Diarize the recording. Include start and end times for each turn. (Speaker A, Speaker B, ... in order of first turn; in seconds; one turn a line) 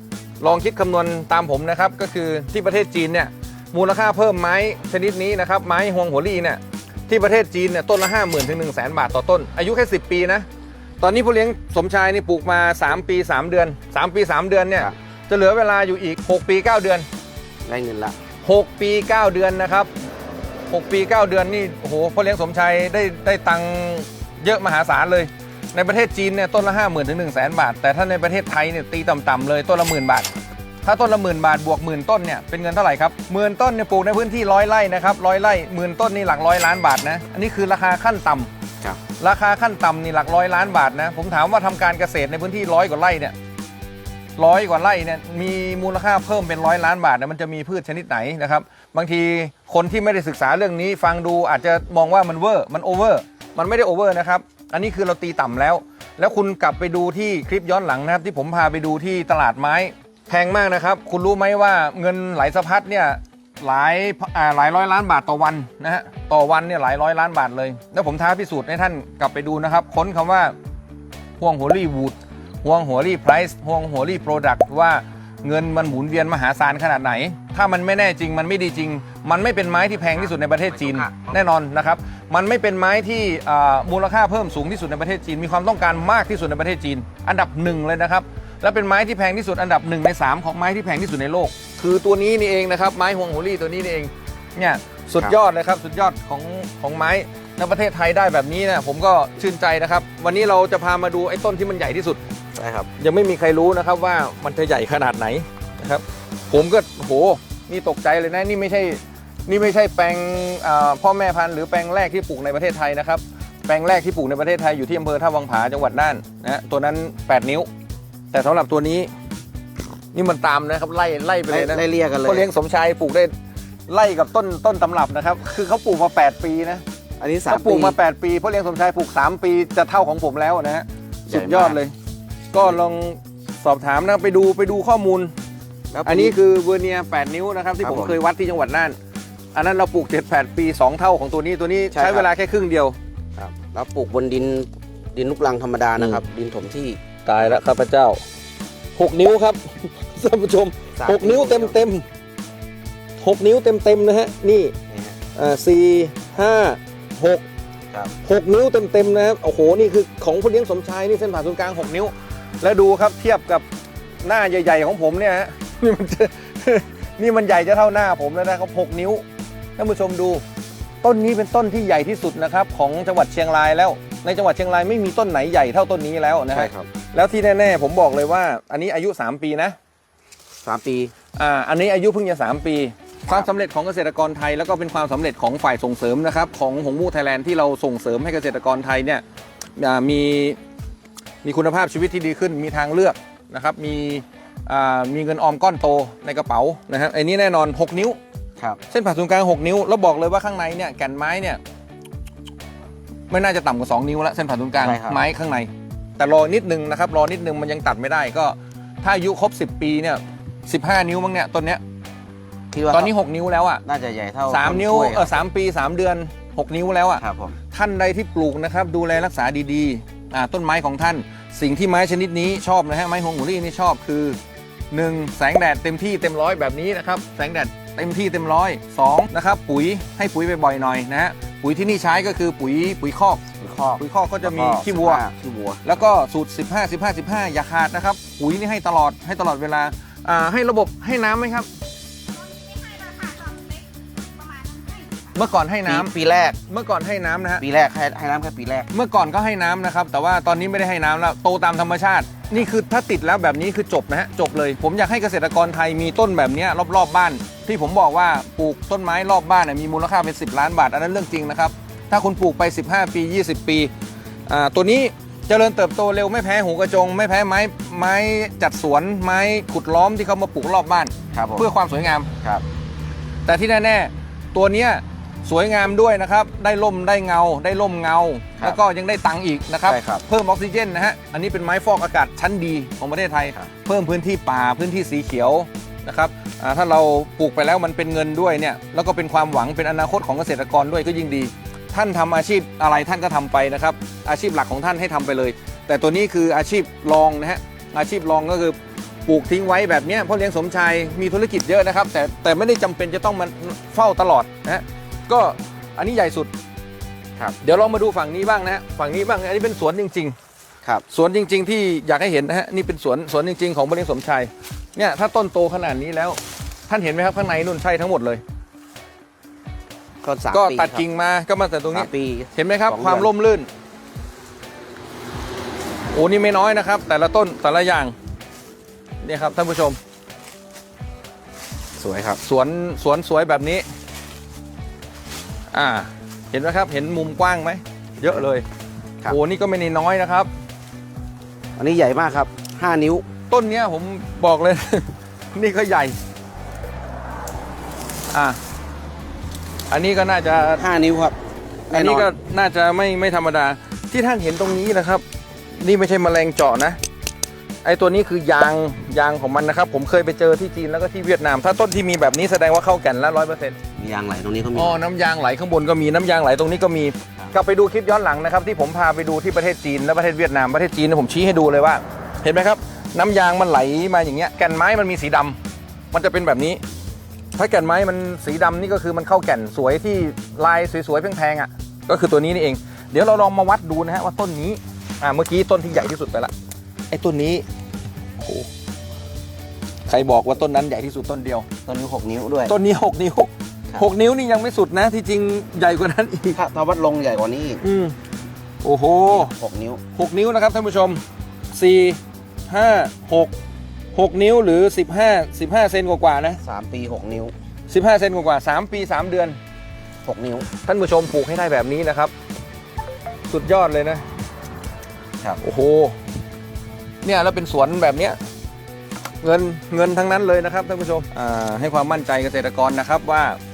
Speaker A: 0.4-10.5
Speaker A: 11.0-17.0
Speaker B: 17.6-18.1
Speaker A: 18.4-19.9
Speaker A: 20.7-30.3
Speaker A: 30.8-38.5
Speaker A: 39.2-43.3
Speaker A: 44.4-70.5
Speaker A: 71.4-102.2
Speaker B: 80.7-81.3
Speaker B: 102.5-102.9
Speaker A: 103.0-117.7
Speaker A: 118.3-119.1
Speaker A: 120.1-123.3
Speaker B: 121.5-122.5
Speaker A: 123.9-126.8
Speaker B: 127.2-128.0
Speaker A: 127.5-131.9
Speaker B: 131.3-131.8
Speaker A: 132.5-135.3
Speaker B: 135.9-136.3
Speaker A: 136.0-138.9
Speaker B: 137.8-138.2
Speaker A: 139.5-142.9
Speaker B: 141.9-142.3
Speaker B: 143.4-147.6
Speaker A: 147.2-148.2
Speaker A: 148.9-152.1
Speaker B: 151.0-151.8
Speaker A: 153.2-154.7
Speaker B: 154.9-155.2
Speaker A: 155.3-157.4
Speaker A: 158.2-163.6
Speaker A: 164.2-169.2
Speaker A: 169.8-170.4
Speaker A: 171.0-179.8
Speaker B: 176.5-176.9
Speaker B: 180.6-181.1
Speaker A: 181.3-189.2
Speaker A: 189.8-190.6
Speaker A: 191.4-198.2
Speaker A: 198.9-201.6
Speaker A: 203.3-211.8
Speaker B: 204.8-205.2
Speaker B: 212.7-213.1
Speaker A: 212.9-213.8
Speaker B: 213.8-215.4
Speaker A: 214.5-224.4
Speaker B: 217.2-217.6
Speaker A: 224.9-233.4
Speaker B: 233.6-235.9
Speaker A: 234.0-235.2
Speaker A: 235.8-241.7
Speaker C: 242.3-245.3
Speaker A: 245.3-246.1
Speaker B: 245.8-246.6
Speaker A: 246.7-247.6
Speaker B: 247.6-248.9
Speaker A: 248.9-263.9
Speaker A: 264.5-272.3
Speaker B: 271.3-271.6
Speaker A: 273.4-306.5
Speaker B: 279.9-280.2
Speaker A: 307.6-310.3
Speaker A: 311.1-318.4
Speaker B: 320.2-321.0
Speaker A: 320.5-323.7
Speaker B: 321.9-323.3
Speaker A: 326.1-328.1
Speaker A: 329.2-330.0
Speaker B: 332.0-332.4
Speaker A: 332.4-333.8
Speaker A: 335.7-338.6
Speaker A: 339.2-340.5
Speaker B: 341.8-343.3
Speaker A: 343.5-346.2
Speaker A: 348.3-348.6
Speaker A: 349.9-350.8
Speaker B: 350.8-351.4
Speaker B: 351.9-352.3
Speaker A: 351.9-357.0
Speaker A: 357.8-363.8
Speaker B: 364.0-365.0
Speaker A: 364.7-375.6
Speaker A: 376.1-376.8
Speaker A: 377.5-386.5
Speaker A: 387.1-387.6
Speaker A: 388.4-388.7
Speaker A: 390.1-391.7
Speaker B: 391.9-392.7
Speaker A: 392.7-396.6
Speaker B: 396.5-397.8
Speaker A: 397.8-398.1
Speaker A: 398.8-399.5
Speaker B: 399.3-400.0
Speaker A: 400.1-403.5
Speaker A: 404.1-406.6
Speaker B: 406.6-407.5
Speaker A: 407.9-409.6
Speaker B: 410.2-410.6
Speaker A: 410.7-412.3
Speaker A: 413.5-414.2
Speaker A: 415.6-416.2
Speaker A: 417.2-418.4
Speaker A: 419.4-423.6